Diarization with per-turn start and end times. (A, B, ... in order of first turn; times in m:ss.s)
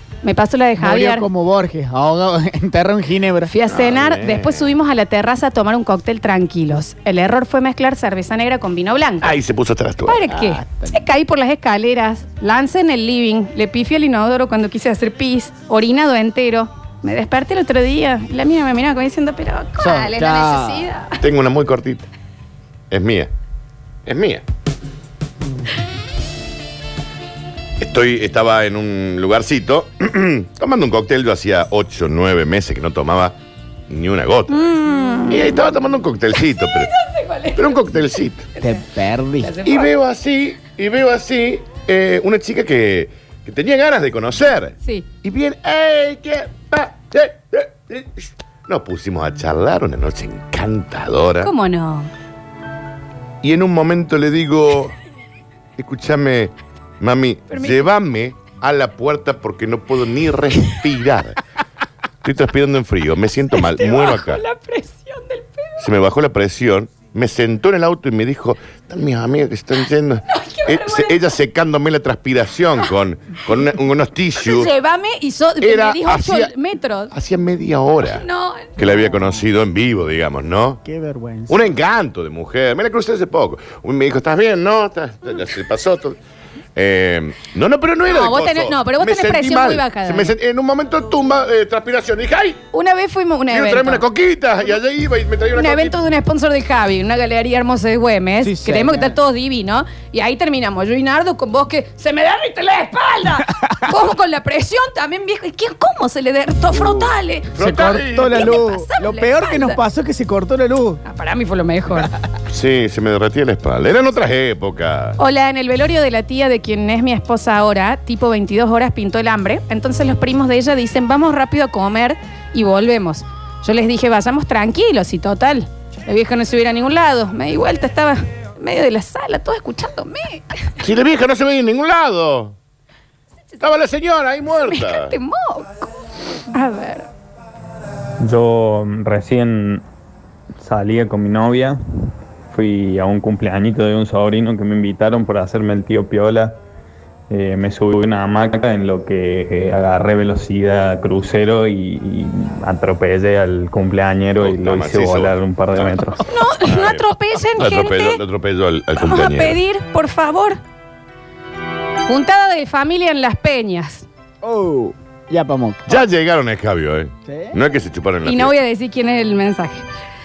0:00.2-0:01.3 A
0:00.8-0:03.5 B
0:03.5-0:09.4 A
0:03.7-0:04.7 C
0:09.2-0:10.3 C
0:10.1-0:21.2 A
0:10.3-0:11.0 B
0:19.8-0:20.9 B
0:21.2-0:22.1 C
0:22.9-0:23.3 C
0:24.1-0:24.4 C
0:27.8-0:33.4 C
0:33.9-0:34.8 C
0:34.5-0:35.6 A
0:35.3-0:36.9 C
0:36.4-0:37.9 A
0:37.6-0:38.5 C
0:38.6-0:38.9 A
0:38.6-0:39.6 B
0:39.4-0:39.9 A
0:39.6-0:51.5 C
0:51.4-0:52.1 A
0:53.4-0:55.0 C
0:55.8-1:01.4 C
0:57.5-0:57.9 A
1:02.2-1:04.4 C
1:03.6-1:05.9 A
1:05.8-1:14.7 C
1:10.3-1:11.4 A
1:14.4-1:17.1 A
1:15.6-1:16.5 C
1:17.1-1:18.3 C
1:18.0-1:18.8 A
1:18.8-1:20.8 C
1:20.8-1:21.6 B
1:21.5-1:26.2 C
1:26.8-1:32.6 C
1:28.1-1:30.3 A
1:32.7-1:34.0 A
1:33.5-1:36.0 C
1:35.5-1:47.6 A
1:38.4-1:39.2 B
1:47.6-1:48.6 C
1:47.6-1:51.0 B
1:48.3-1:49.8 A
1:51.0-1:52.1 A
1:52.5-1:55.2 C
1:55.2-2:10.8 A
2:10.8-2:12.6 C
2:13.6-2:15.2 C
2:14.7-2:15.9 A
2:16.5-2:17.1 A
2:18.2-2:19.8 D
2:20.6-2:21.8 D
2:22.5-2:26.6 D
2:27.3-2:36.2 D
2:34.4-2:36.0 C
2:36.3-2:38.2 A
2:36.6-2:39.6 C
2:39.0-2:40.6 A
2:42.1-2:44.1 A
2:44.4-2:45.9 B
2:45.9-2:48.5 C
2:47.3-2:47.6 B
2:48.2-2:49.8 A